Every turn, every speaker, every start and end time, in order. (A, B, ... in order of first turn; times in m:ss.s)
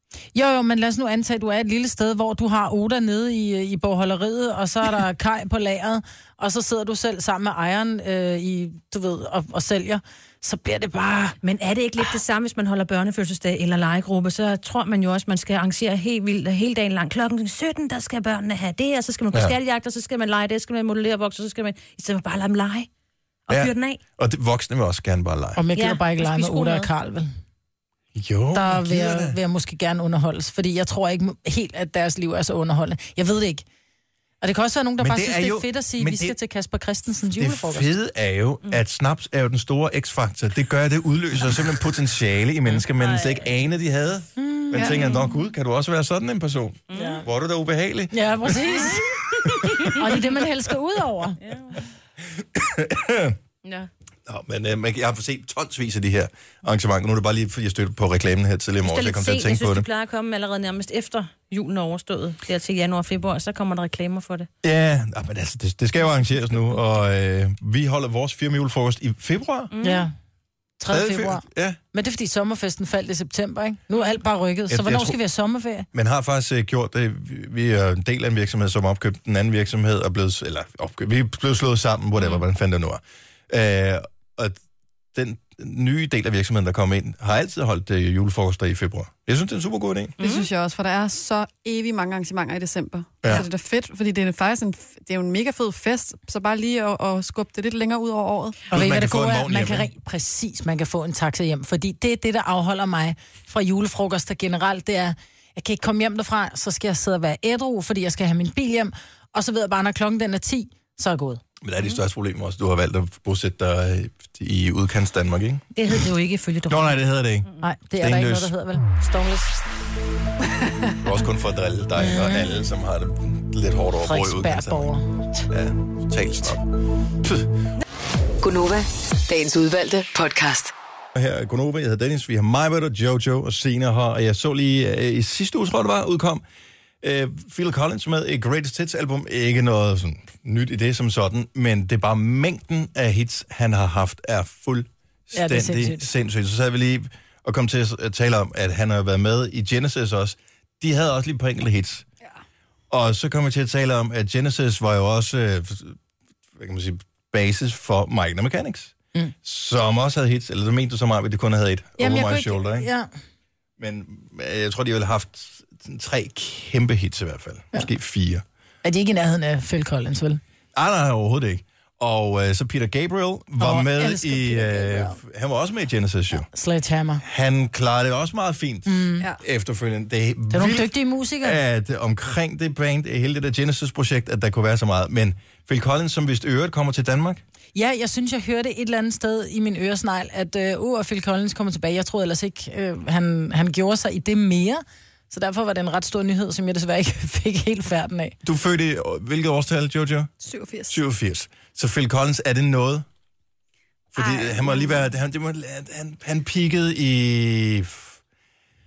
0:00.3-0:11.4 A
0:11.4-0:22.9 B
0:23.5-0:24.0 B
0:23.5-0:25.6 C
0:25.6-0:27.3 A
0:25.7-0:26.9 B
0:28.1-0:29.4 C
0:28.5-0:33.6 A
0:34.4-0:37.9 A
0:35.0-0:36.4 C
0:37.3-0:50.0 C
0:42.7-0:43.5 B
0:44.4-0:45.0 A
0:44.8-0:45.0 D
0:46.9-0:47.2 B
0:46.9-0:47.2 A
0:48.1-0:51.4 A
0:51.4-0:51.9 B
0:52.4-0:53.4 C
0:53.6-0:53.9 B
0:54.3-0:59.9 C
0:58.8-1:04.5 B
1:04.6-1:09.7 C
1:09.7-1:10.1 B
1:09.8-1:10.1 A
1:10.8-1:15.9 A
1:10.9-1:11.8 C
1:14.7-1:15.2 C
1:15.9-1:24.6 C
1:25.1-1:30.2 C
1:30.2-1:30.5 B
1:30.2-1:38.6 D
1:38.7-1:39.9 C
1:38.7-1:51.4 A
1:51.6-1:55.8 C
1:55.8-1:57.5 B
1:56.7-1:57.5 C
1:57.6-1:59.6 A
1:58.0-1:58.5 C
2:01.0-2:05.0 C
2:02.0-2:02.4 A
2:04.0-2:05.4 A
2:05.5-2:06.6 C
2:08.4-2:10.7 E
2:11.1-2:16.4 C
2:17.0-2:32.0 C
2:25.4-2:26.1 A
2:32.9-2:36.0 C
2:36.6-2:42.9 C
2:42.0-2:43.1 A
2:43.8-2:48.4 C
2:48.8-2:50.4 A
2:50.7-2:56.5 C
2:53.6-2:55.2 A
2:56.3-2:57.2 A
2:57.2-3:07.4 C
2:58.9-2:59.3 A
3:00.5-3:01.6 A
3:07.7-3:18.4 A
3:18.4-3:20.3 C
3:20.4-3:21.0 D
3:20.9-3:23.0 C
3:24.1-3:28.2 C